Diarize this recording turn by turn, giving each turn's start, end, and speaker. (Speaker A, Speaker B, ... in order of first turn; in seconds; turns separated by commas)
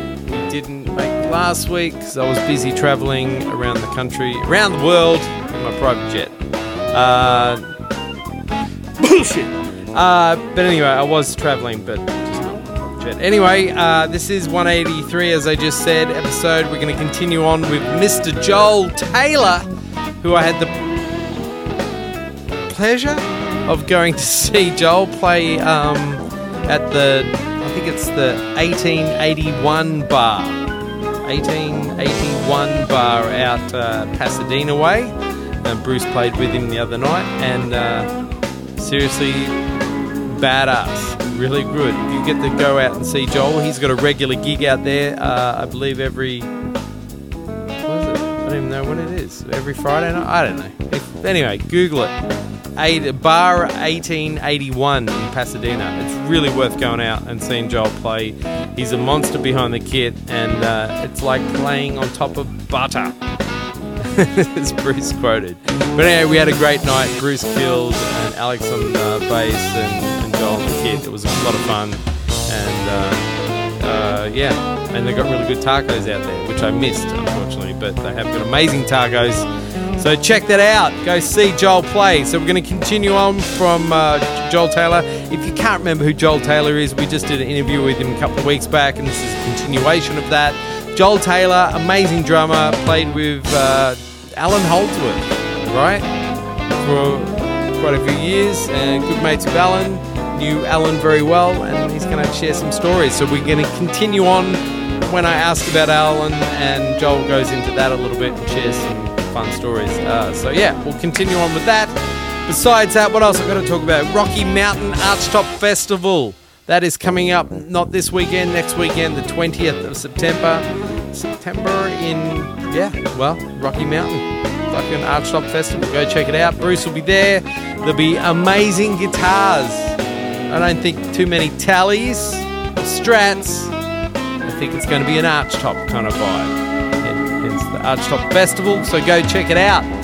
Speaker A: 0.2-6.3, Speaker A: 6.9-7.7, Speaker A: 9.0-19.7, Speaker A: 20.2-20.8, Speaker A: 22.5-30.6, Speaker A: 31.2-38.1, Speaker A: 38.8-39.6, Speaker A: 40.2-46.5, Speaker A: 47.8-52.1, Speaker A: 52.7-63.2, Speaker A: 64.0-96.1, Speaker A: 96.8-111.9, Speaker A: 112.5-130.0, Speaker A: 130.5-133.7, Speaker A: 134.4-139.9